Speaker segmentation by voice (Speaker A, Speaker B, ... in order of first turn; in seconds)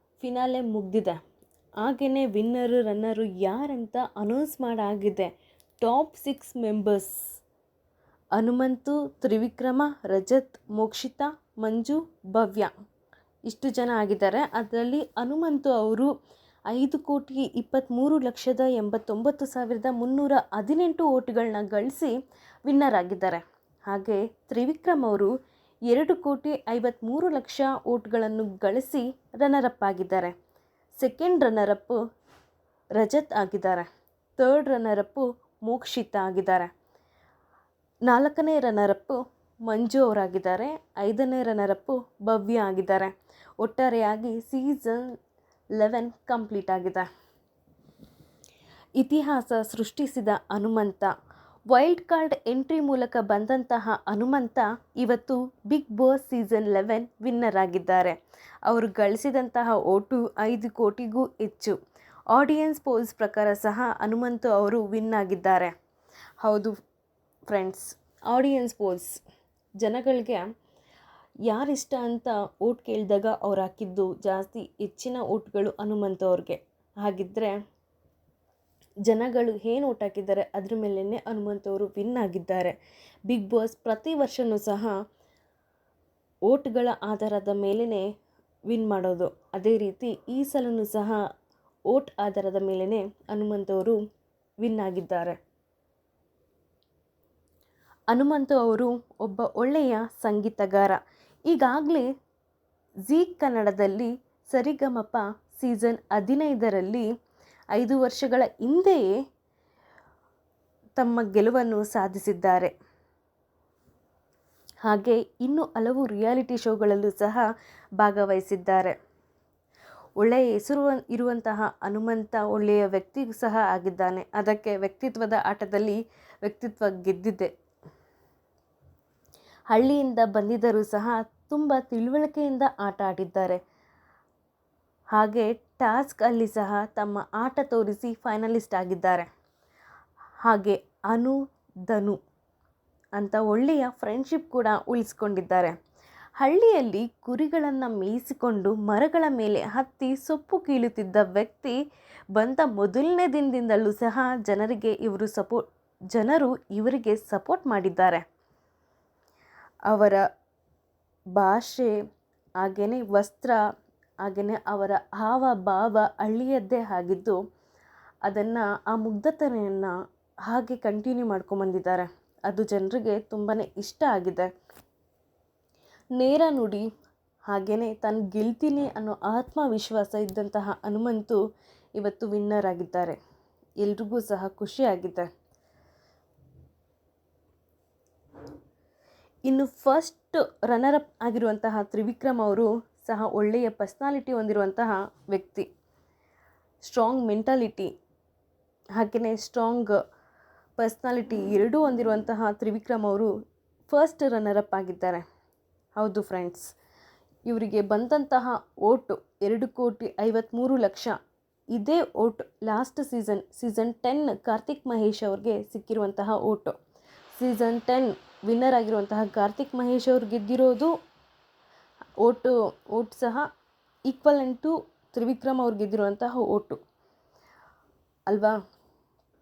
Speaker A: 0.2-1.2, 1.8-7.1, 8.3-12.7, 13.5-16.1, 16.7-22.1, 22.7-25.3, 25.9-30.3, 30.9-32.0, 33.0-36.7, 38.1-45.1, 45.8-47.1, 49.0-51.1, 51.7-61.8, 62.3-65.7, 66.4-66.7, 67.5-69.2, 69.8-70.4, 71.5-77.5, 79.1-82.8, 83.3-84.9, 86.5-88.0, 88.7-91.2, 91.9-94.0, 94.6-95.4, 98.1-102.1, 103.1-107.0, 107.7-109.0, 111.0-112.7, 114.8-117.5, 118.0-118.9, 120.2-127.5, 129.7-133.6, 135.1-139.3, 140.4-141.3, 141.9-142.2, 143.2-145.7, 146.4-151.7, 152.3-158.2, 159.9-160.2, 161.3-161.9, 162.6-163.6, 164.2-167.4, 168.2-169.9, 170.5-174.5, 176.2-176.8, 177.5-181.4, 182.0-183.2, 183.8-185.3, 189.5-195.7, 196.8-197.9, 199.0-200.0, 200.8-203.3, 203.9-205.2, 205.9-206.7, 207.5-211.2, 211.7-216.7, 217.3-220.9, 222.2-223.5, 224.1-226.8, 228.3-228.6